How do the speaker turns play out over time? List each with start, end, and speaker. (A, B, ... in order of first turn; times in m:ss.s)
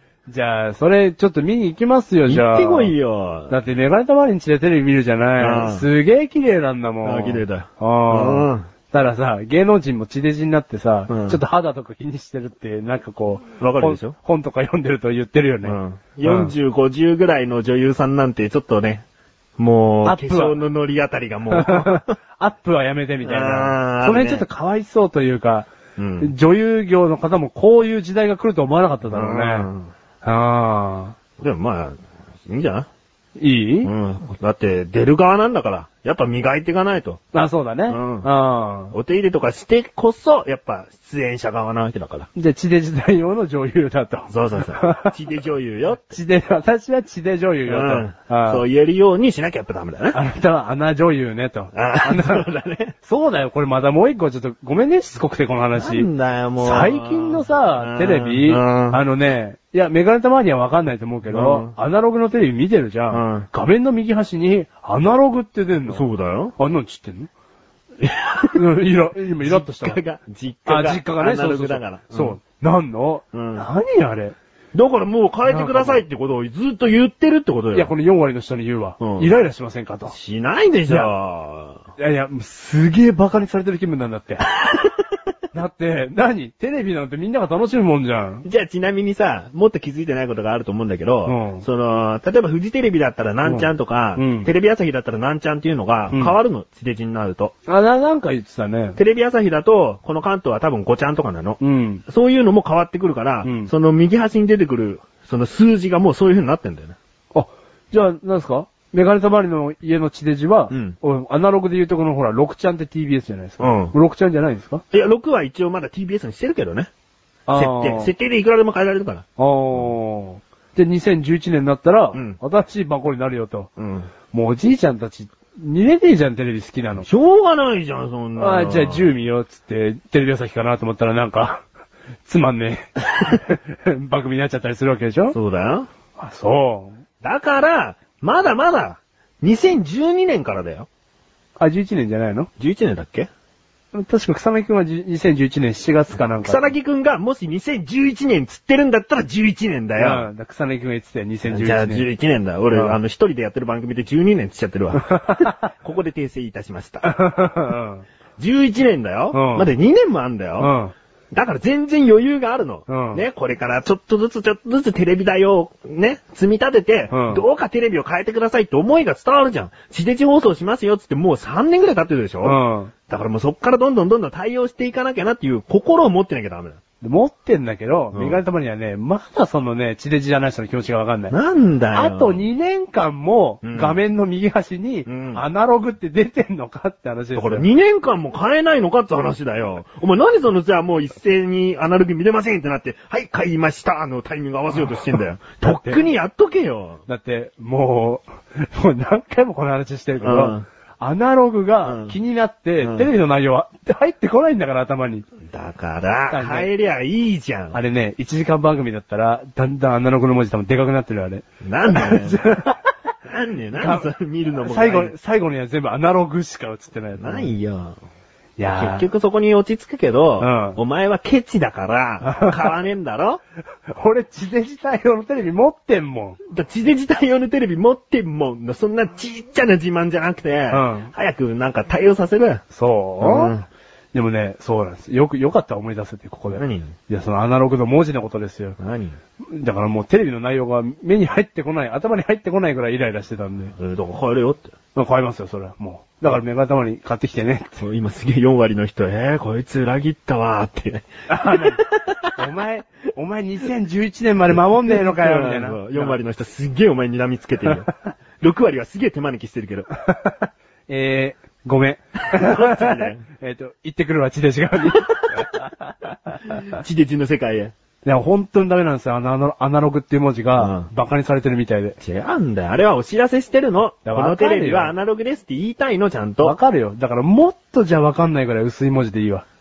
0:00.3-0:02.9 A
0:02.3-0:03.6 B
0:03.5-0:16.5 A
0:05.4-0:05.8 B
0:07.0-0:08.7 B
0:11.1-0:11.4 B
0:13.6-0:14.2 B
0:15.6-0:19.0 B
0:19.6-0:22.2 B
0:20.0-0:20.6 A
0:21.5-0:25.7 A
0:23.2-0:24.4 B
0:26.0-0:26.3 B
0:26.2-0:29.7 A
0:29.1-0:29.9 B
0:30.2-0:31.2 A
0:31.4-0:32.9 B
0:33.4-0:33.9 A
0:33.8-0:37.2 B
0:37.3-0:39.0 A
0:37.9-0:38.3 B
0:38.9-0:42.3 B
0:42.4-0:45.1 A
0:44.3-0:46.2 B
0:46.1-0:48.6 A
0:47.7-0:50.2 B
0:50.1-0:52.5 A
0:51.7-0:53.0 B
0:53.0-0:56.1 A
0:55.8-0:59.0 B
0:56.6-1:06.0 A
1:01.3-1:01.8 B
1:03.1-1:03.5 B
1:05.9-1:06.6 B
1:06.6-1:07.3 A
1:08.0-1:08.6 B
1:08.6-1:10.0 A
1:09.4-1:12.4 B
1:10.7-1:14.4 A
1:13.3-1:13.7 B
1:14.7-1:17.9 B
1:15.5-1:16.0 A
1:17.7-1:20.2 A
1:19.0-1:19.3 B
1:20.1-1:21.8 B
1:22.0-1:24.5 A
1:24.5-1:25.0 B
1:25.5-1:28.4 A
1:28.4-1:37.5 B
1:31.3-1:31.6 A
1:33.4-1:34.5 A
1:37.7-1:39.0 A
1:39.0-1:47.0 B
1:41.6-1:42.0 A
1:43.4-1:43.7 A
1:47.3-1:54.8 A
1:50.7-1:51.0 B
1:53.6-1:53.9 B
1:54.9-1:56.9 B
1:57.5-1:58.1 A
1:57.5-1:59.2 B
1:59.4-2:03.7 A
2:02.1-2:02.4 B
2:03.8-2:04.1 B
2:04.3-2:07.1 A
2:07.0-2:09.1 B
2:08.4-2:11.6 A
2:12.3-2:15.4 A
2:15.3-2:15.9 B
2:16.2-2:17.0 A
2:17.2-2:20.9 B
2:21.6-2:22.5 A
2:22.6-2:23.3 B
2:23.9-2:26.7 A
2:26.4-2:30.3 B
2:30.0-2:32.0 A
2:31.5-2:37.1 B
2:35.1-2:35.6 A
2:37.0-2:38.0 A
2:38.4-2:40.7 B
2:39.3-2:39.7 A
2:40.6-2:40.9 A
2:41.3-2:56.8 B
2:42.9-2:43.2 A
2:47.1-2:47.4 A
2:52.4-2:52.9 A
2:57.0-3:01.4 A
2:58.1-2:58.4 B
3:01.3-3:02.4 B
3:01.9-3:07.6 A
3:03.6-3:04.0 B
3:05.1-3:05.4 B
3:07.4-3:17.0 B
3:15.6-3:16.0 A
3:17.1-3:25.3 A
3:20.2-3:20.7 B
3:21.8-3:22.2 B
3:22.8-3:23.1 B
3:25.5-3:27.8 B
3:26.3-3:26.7 A
3:27.7-3:32.9 A
3:31.6-3:32.6 B
3:33.3-3:35.1 B
3:33.8-3:34.1 A
3:34.6-3:37.5 A
3:37.2-3:38.0 B
3:38.6-3:39.1 A
3:38.7-3:43.4 B
3:40.4-3:40.8 A
3:42.3-3:42.7 A
3:43.9-3:46.4 A
3:46.5-3:52.6 B
3:50.7-3:51.1 A
3:52.7-3:53.5 A
3:53.2-3:53.7 B
3:54.1-3:58.8 A
3:56.5-3:56.9 B
3:58.8-3:59.2 B
3:59.4-4:03.7 A
4:03.8-4:04.7 B
4:05.0-4:07.8 A
4:07.8-4:12.4 B
4:11.3-4:11.8 A
4:12.4-4:16.2 A
4:14.9-4:19.9 B
4:20.0-4:25.7 A
4:22.2-4:23.2 B
4:26.5-4:27.7 B
4:28.0-4:32.0 A
4:30.6-4:30.9 B
4:32.0-4:36.6 B
4:34.1-4:35.0 A
4:36.4-4:39.4 A